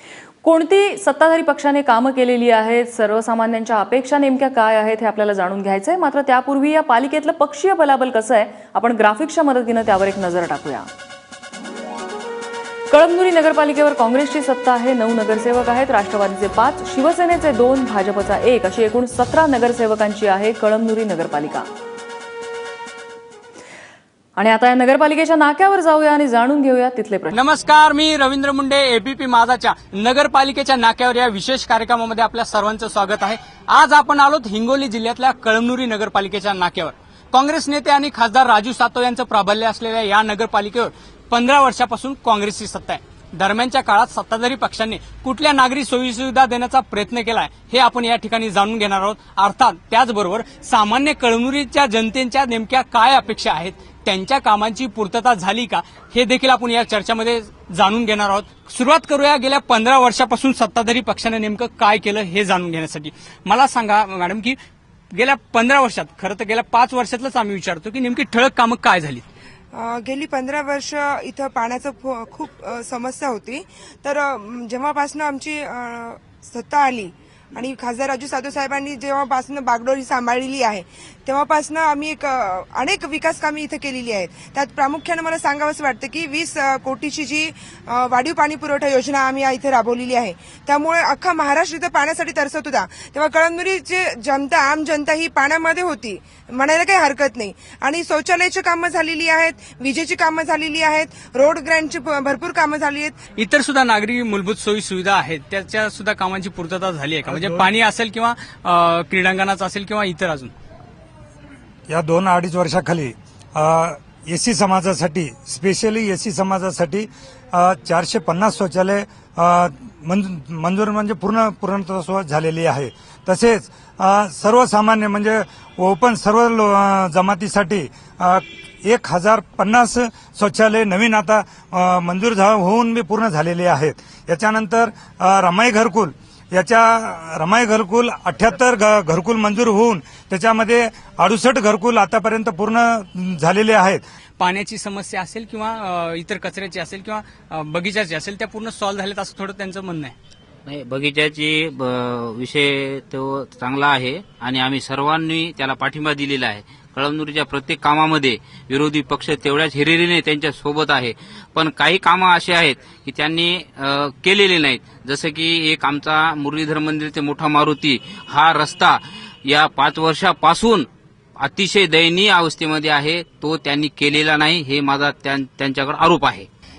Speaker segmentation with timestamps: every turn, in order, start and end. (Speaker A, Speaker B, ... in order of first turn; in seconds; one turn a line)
Speaker A: 0.4-10.9
Speaker A: 12.9-21.7
Speaker A: 24.4-27.4
Speaker B: 27.3-64.6
Speaker B: 65.1-69.3
Speaker C: 69.8-103.1
Speaker B: 103.4-110.5
Speaker D: 107.3-107.7
Speaker D: 111.9-144.0
Speaker B: 144.4-150.2
Speaker E: 150.7-170.9
Speaker E: 171.4-176.5